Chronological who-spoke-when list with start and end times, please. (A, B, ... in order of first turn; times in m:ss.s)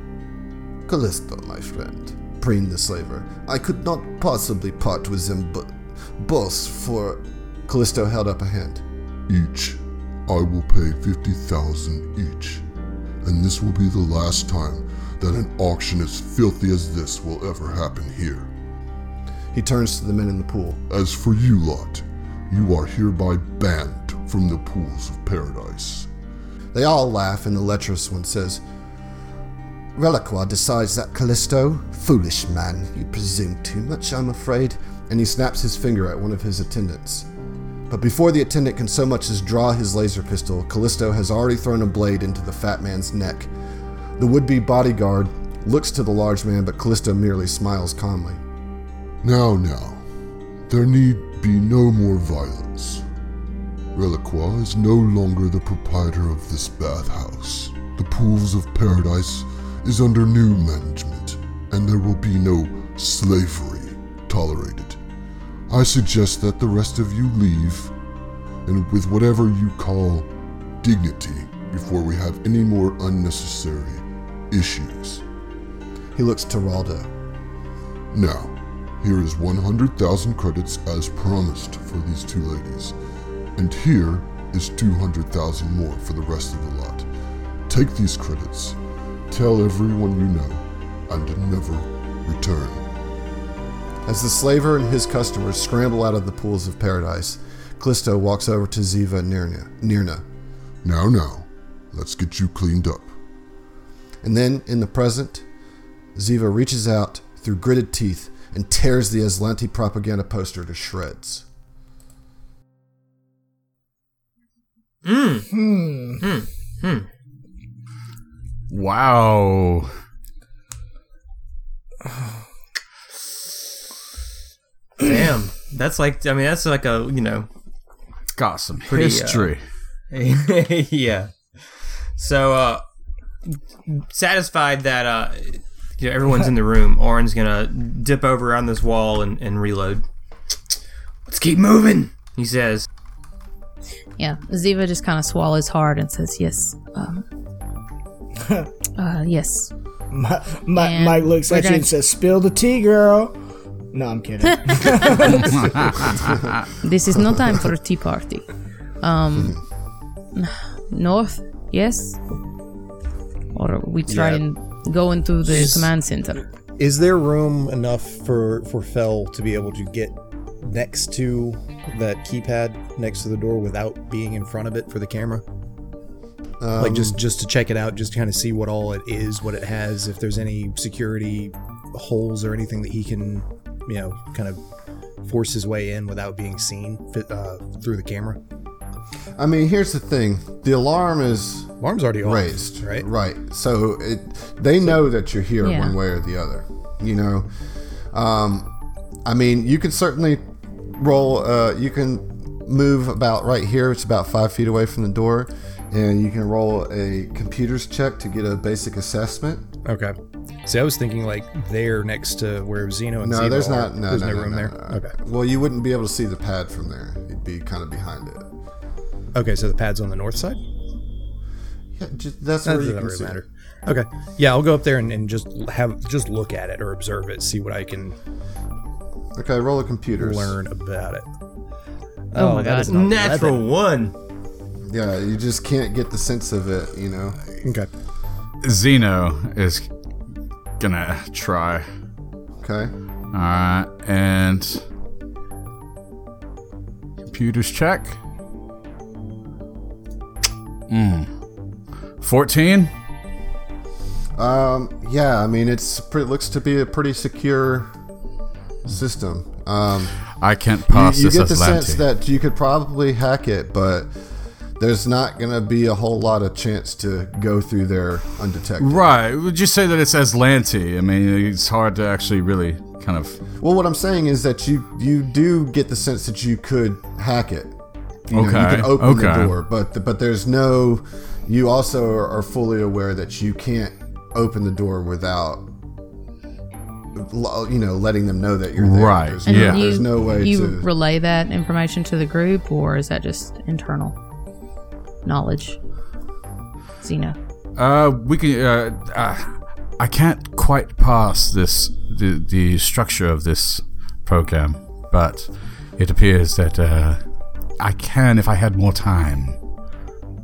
0:00.9-0:08.8 A
0:09.3-0:12.6 B
0:13.2-0:18.5 B
0:19.5-0:20.8 A
0:20.9-0:26.1 B
0:26.7-0:28.6 A
0:29.9-0:37.3 A
0:37.9-0:43.5 A
0:44.2-0:48.4 A
0:49.2-0:50.1 B
0:50.7-0:53.0 B
0:53.9-1:05.0 B
1:05.7-1:07.9 B
1:08.6-1:15.2 B
1:16.1-1:17.1 A
1:18.1-1:23.0 B
1:23.6-1:27.1 B
1:27.7-1:28.8 B
1:29.3-1:32.9 B
1:34.0-1:40.2 A
1:40.8-1:43.1 B
1:44.2-1:45.4 A
1:46.2-1:51.5 A
1:55.0-1:55.5 C
1:55.5-1:56.2 D
1:56.2-1:57.1 C
1:58.7-1:59.9 E
2:05.0-2:07.5 C
2:08.3-2:09.6 E
2:08.8-2:09.5 C
2:10.1-2:11.3 C
2:12.2-2:12.8 C
2:13.9-2:20.0 C
2:21.3-2:22.9 C
2:24.2-2:27.2 F
2:28.4-2:28.7 D
2:29.0-2:29.7 F
2:30.1-2:33.4 D
2:30.7-2:31.9 F
2:33.9-2:36.1 D
2:35.6-2:36.4 E
2:36.8-2:38.5 F
2:39.0-2:39.6 F
2:40.3-2:42.2 F
2:43.5-2:46.4 F
2:44.1-2:44.4 G
2:45.4-2:45.9 G
2:46.8-2:55.4 G
2:56.6-2:57.2 A
2:56.8-3:04.6 G
3:05.2-3:08.4 G
3:09.4-3:11.7 A
3:11.8-3:13.1 G
3:12.2-3:17.5 A
3:15.6-3:15.9 F
3:18.1-3:18.7 A
3:19.2-3:29.7 A
3:29.8-3:35.1 G
3:33.2-3:38.5 A
3:39.3-3:40.6 G
3:42.0-3:43.4 A
3:42.6-3:48.2 G
3:49.3-3:50.6 A
3:50.2-3:51.2 G
3:52.3-3:53.6 G
3:52.3-3:52.9 F
3:52.9-3:54.1 C
3:54.9-3:57.4 A
3:57.6-3:57.9 G
3:58.6-3:59.9 E
4:00.8-4:01.9 E
4:02.6-4:02.9 A
4:03.3-4:04.8 E
4:07.3-4:08.2 E
4:10.9-4:11.3 E
4:12.2-4:12.9 E
4:14.4-4:17.9 A
4:18.8-4:20.2 A
4:20.4-4:22.0 E
4:20.9-4:24.1 A
4:24.8-4:29.1 A
4:28.8-4:33.4 E
4:33.6-4:37.7 A
4:38.3-4:45.7 A
4:38.3-4:39.5 E
4:47.1-4:50.9 A
4:48.8-4:49.8 E
4:49.4-4:54.2 F
4:55.2-4:55.8 F
4:57.0-4:57.4 F
4:57.8-5:07.2 E
5:07.8-5:09.6 E